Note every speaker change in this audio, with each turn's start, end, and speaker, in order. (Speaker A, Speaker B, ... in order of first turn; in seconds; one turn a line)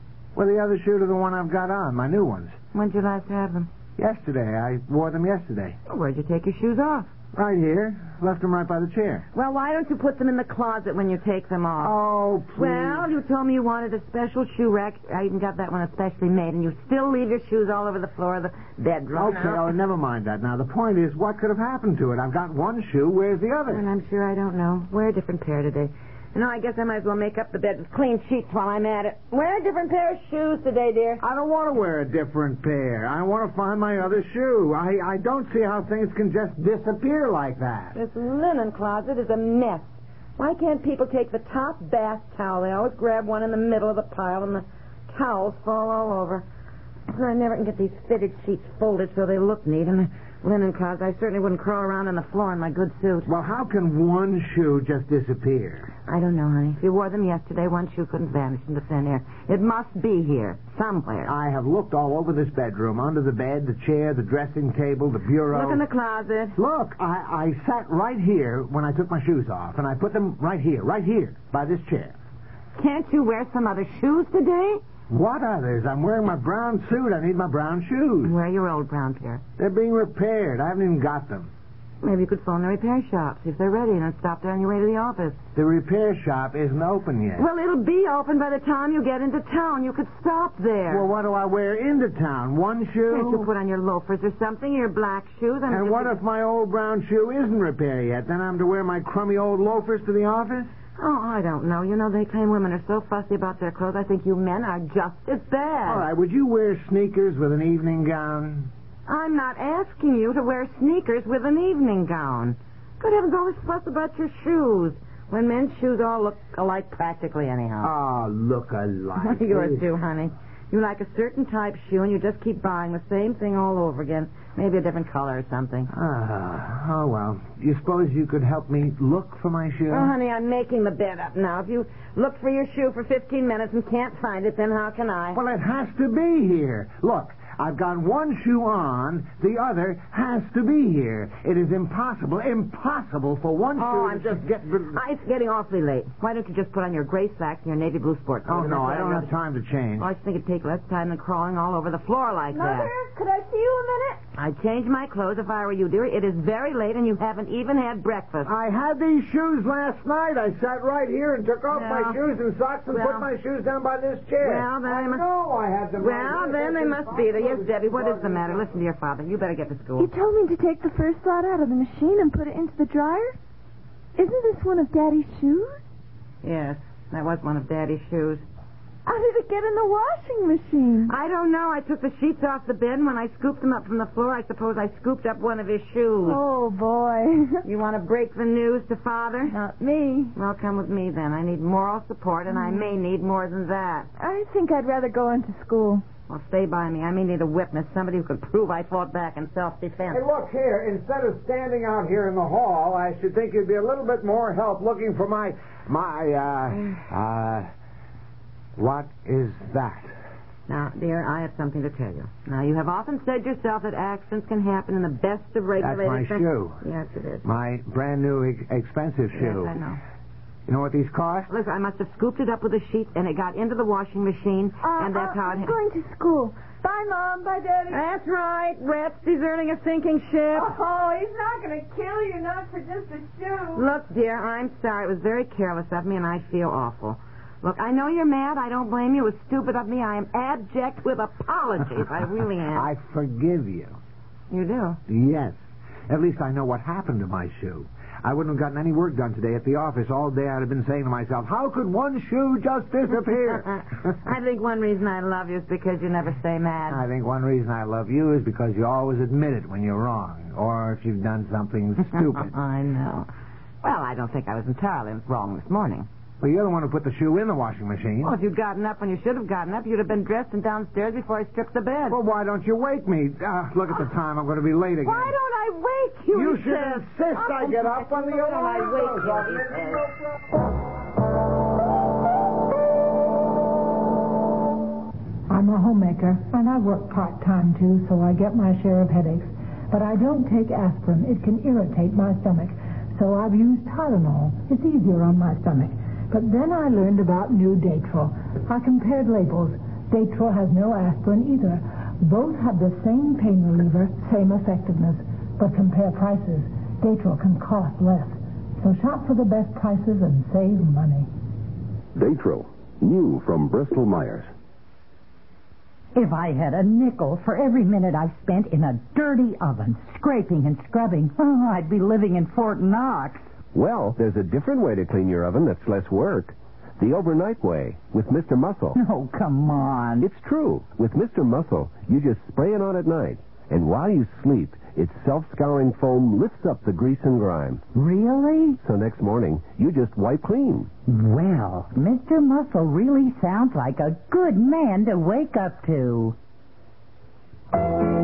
Speaker A: 0.3-2.5
Speaker B: 2.7-3.7
Speaker A: 4.0-5.8
Speaker B: 5.8-7.1
Speaker A: 7.3-9.2
Speaker B: 9.3-11.9
Speaker A: 11.8-13.1
Speaker B: 12.5-19.7
Speaker A: 19.1-23.8
Speaker B: 23.7-31.2
Speaker A: 31.2-38.0
Speaker B: 37.9-46.4
Speaker B: 47.1-53.3
Speaker A: 53.2-55.9
Speaker B: 56.1-61.3
Speaker A: 61.3-65.8
Speaker B: 65.5-66.6
Speaker A: 66.6-72.2
Speaker B: 72.8-74.8
Speaker A: 75.1-78.3
Speaker B: 78.2-79.4
Speaker A: 79.6-81.5
Speaker B: 82.0-85.4
Speaker A: 85.5-87.5
Speaker B: 87.3-91.1
Speaker A: 90.9-93.5
Speaker B: 93.1-96.2
Speaker A: 95.7-100.7
Speaker B: 101.0-106.1
Speaker A: 105.8-108.7
Speaker B: 109.1-117.9
Speaker A: 117.8-119.9
Speaker B: 119.2-125.9
Speaker A: 125.9-130.1
Speaker B: 129.9-135.4
Speaker A: 135.3-145.0
Speaker B: 143.8-149.3
Speaker A: 148.4-150.1
Speaker B: 150.0-152.9
Speaker C: 152.5-154.2
Speaker B: 154.4-158.5
Speaker A: 158.4-168.7
Speaker B: 161.7-162.2
Speaker B: 162.9-163.3
Speaker B: 164.4-165.2
Speaker B: 166.0-170.1
Speaker C: 170.0-173.4
Speaker C: 174.2-175.8
Speaker B: 176.4-178.4
Speaker C: 179.1-181.1
Speaker B: 181.1-186.4
Speaker C: 186.2-187.6
Speaker B: 187.6-189.6
Speaker C: 189.5-190.3
Speaker B: 190.3-194.1
Speaker C: 194.2-196.0
Speaker B: 196.3-200.2
Speaker A: 200.1-207.7
Speaker A: 208.8-210.1
Speaker B: 210.7-217.4
Speaker A: 215.8-216.8
Speaker A: 217.4-219.8
Speaker B: 219.3-220.0
Speaker A: 220.7-221.5
Speaker B: 221.5-225.8
Speaker C: 224.8-228.0
Speaker B: 227.9-230.7
Speaker C: 230.5-233.8
Speaker B: 233.8-242.9
Speaker A: 242.7-244.0
Speaker B: 244.5-245.0
Speaker A: 245.1-245.6
Speaker A: 246.1-253.7
Speaker B: 253.2-257.0
Speaker A: 256.9-262.5
Speaker B: 262.0-263.3
Speaker B: 263.8-266.1
Speaker A: 266.4-268.3
Speaker B: 268.2-272.2
Speaker A: 272.1-275.4
Speaker B: 275.0-280.1
Speaker A: 276.3-280.1
Speaker D: 285.5-311.3
Speaker C: 285.9-289.2
Speaker C: 290.1-290.5
Speaker C: 291.1-292.4
Speaker C: 300.8-301.3
Speaker C: 302.5-305.1
Speaker C: 305.7-306.5
Speaker E: 312.1-314.5
Speaker F: 316.1-323.5
Speaker E: 323.7-329.0
Speaker F: 328.9-330.3
Speaker E: 330.2-337.9
Speaker F: 337.9-338.8
Speaker E: 338.8-340.9
Speaker F: 341.1-346.4